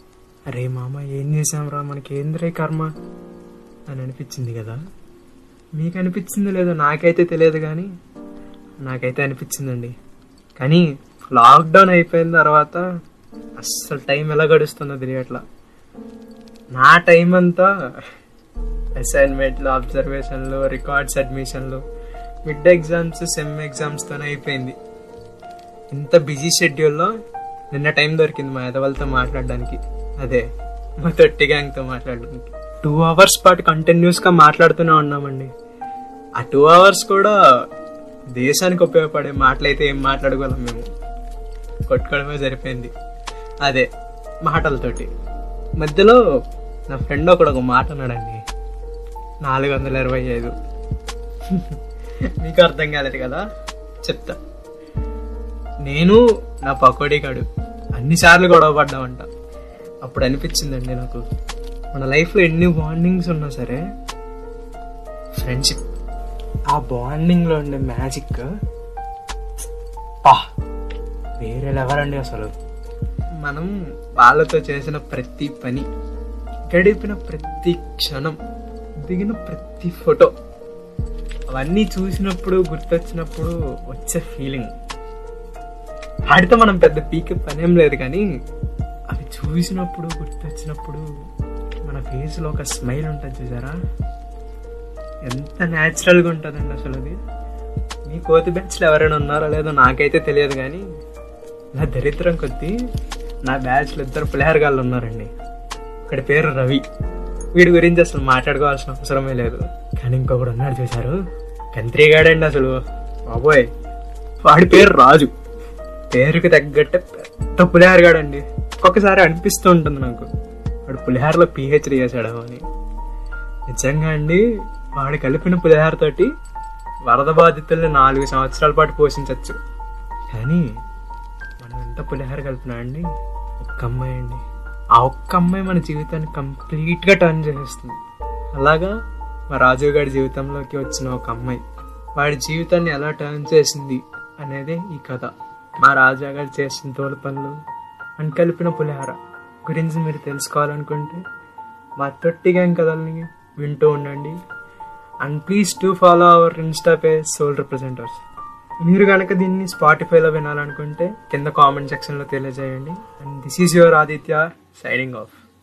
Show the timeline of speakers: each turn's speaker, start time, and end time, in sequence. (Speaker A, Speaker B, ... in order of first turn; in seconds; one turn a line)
Speaker A: 0.5-2.9
Speaker A: 3.9-4.8
Speaker A: 5.8-7.9
Speaker A: 8.8-9.9
Speaker A: 10.6-12.8
Speaker A: 13.6-15.4
Speaker A: 16.7-17.7
Speaker A: 19.0-21.8
Speaker A: 22.5-24.8
Speaker A: 25.9-27.1
Speaker A: 27.7-30.4
Speaker A: 31.0-35.5
Speaker A: 36.4-37.4
Speaker A: 38.4-40.9
Speaker A: 41.9-42.9
Speaker A: 44.5-45.1
Speaker A: 45.8-46.2
Speaker A: 46.9-48.4
Speaker A: 49.5-50.5
Speaker A: 51.5-51.8
Speaker A: 52.4-53.4
Speaker A: 54.1-54.4
Speaker A: 55.9-57.5
Speaker A: 58.0-59.3
Speaker A: 60.0-61.2
Speaker A: 62.0-63.8
Speaker A: 65.4-65.8
Speaker A: 66.7-68.5
Speaker A: 71.4-72.5
Speaker A: 73.4-75.8
Speaker A: 76.7-78.4
Speaker A: 79.1-80.3
Speaker A: 81.5-84.7
Speaker A: 86.3-88.2
Speaker A: 89.1-91.0
Speaker A: 91.9-93.7
Speaker A: 95.3-97.2
Speaker A: 98.1-100.8
Speaker A: 101.8-102.7
Speaker A: 103.5-105.3
Speaker A: 106.1-106.8
Speaker A: 107.5-111.2
Speaker A: 111.7-112.8
Speaker A: 113.3-113.7
Speaker A: 114.4-115.3
Speaker A: 116.1-120.3
Speaker A: 120.9-122.6
Speaker A: 123.7-124.4
Speaker A: 125.0-126.3
Speaker A: 127.1-129.6
Speaker A: 130.3-130.6
Speaker A: 131.6-133.0
Speaker A: 133.6-134.4
Speaker A: 135.0-138.0
Speaker A: 138.5-138.9
Speaker A: 139.5-141.6
Speaker A: 142.2-145.3
Speaker A: 145.8-147.6
Speaker A: 148.2-149.2
Speaker A: 149.7-151.2
Speaker A: 152.0-154.4
Speaker A: 155.2-158.2
Speaker A: 158.8-165.4